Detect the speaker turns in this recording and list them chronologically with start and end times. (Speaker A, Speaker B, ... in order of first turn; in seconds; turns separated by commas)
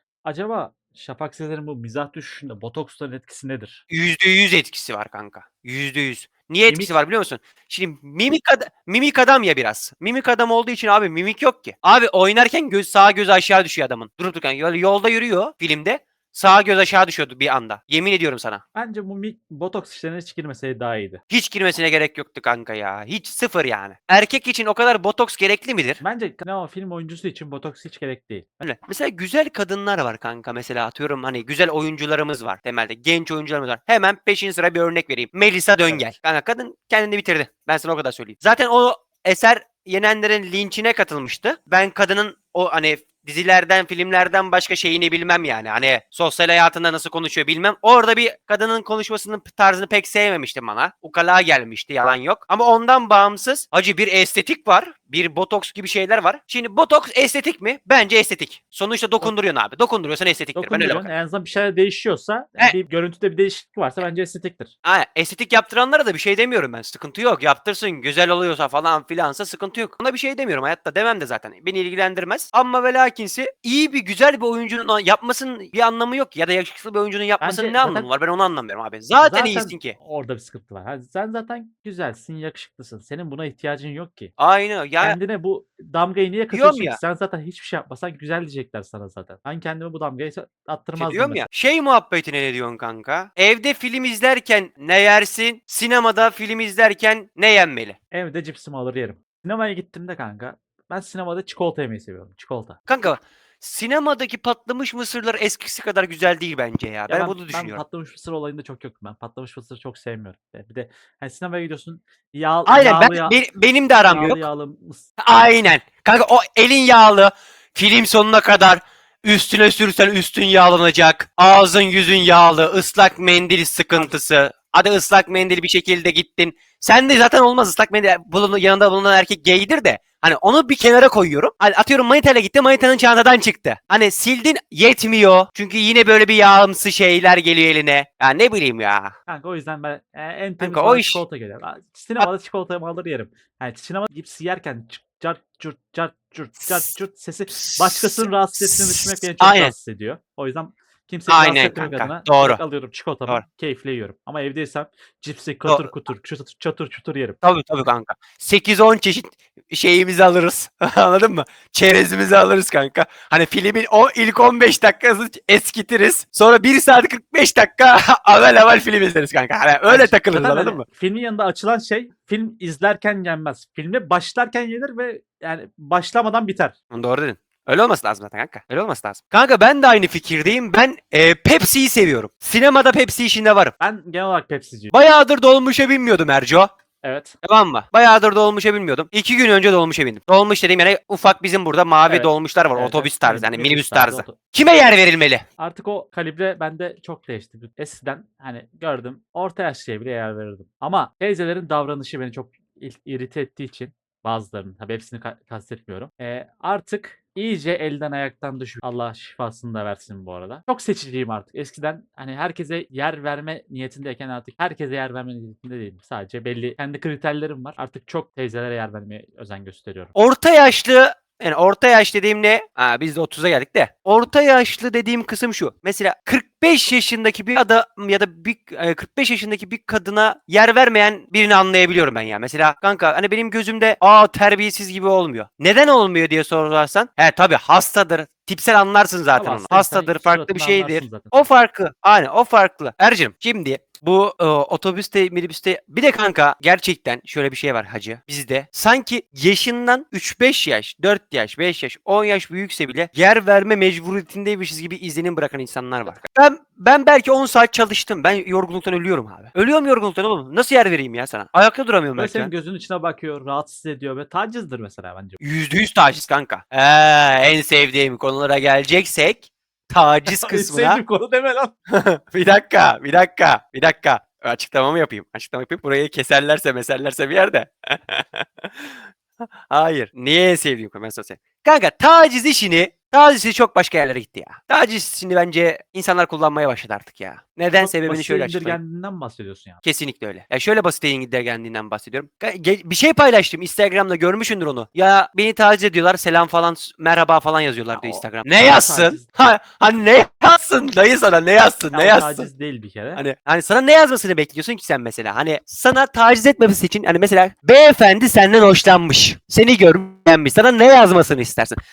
Speaker A: 0.2-3.8, Speaker B: 3.9-18.6, Speaker A: 6.7-7.0, Speaker A: 18.8-21.2, Speaker B: 21.3-26.0, Speaker A: 26.0-28.4, Speaker B: 28.6-61.1, Speaker A: 35.8-36.1, Speaker A: 60.6-64.7, Speaker B: 64.8-79.9, Speaker A: 77.4-78.1, Speaker A: 79.2-84.3, Speaker B: 84.4-85.2, Speaker A: 85.0-91.5, Speaker B: 86.5-87.0, Speaker B: 91.0-98.0, Speaker A: 98.1-102.8, Speaker B: 102.9-107.8, Speaker A: 107.1-113.4, Speaker B: 112.7-114.4, Speaker A: 114.0-115.1, Speaker B: 115.2-139.2, Speaker A: 139.3-157.4, Speaker B: 140.6-141.2, Speaker B: 147.7-149.7, Speaker B: 151.3-152.6, Speaker B: 157.4-170.8, Speaker A: 169.9-176.7, Speaker B: 176.9-183.7, Speaker A: 183.8-184.9, Speaker B: 184.9-186.7, Speaker A: 187.0-187.3, Speaker B: 187.4-195.4, Speaker A: 192.0-194.4, Speaker A: 195.6-220.1, Speaker B: 220.2-262.5, Speaker A: 239.3-241.3, Speaker A: 262.2-265.4, Speaker B: 265.4-271.0, Speaker A: 270.2-271.7, Speaker B: 271.9-278.9, Speaker B: 279.7-288.8, Speaker A: 287.7-289.8, Speaker B: 289.8-302.5, Speaker A: 297.9-299.3, Speaker A: 301.9-303.2, Speaker B: 303.1-311.8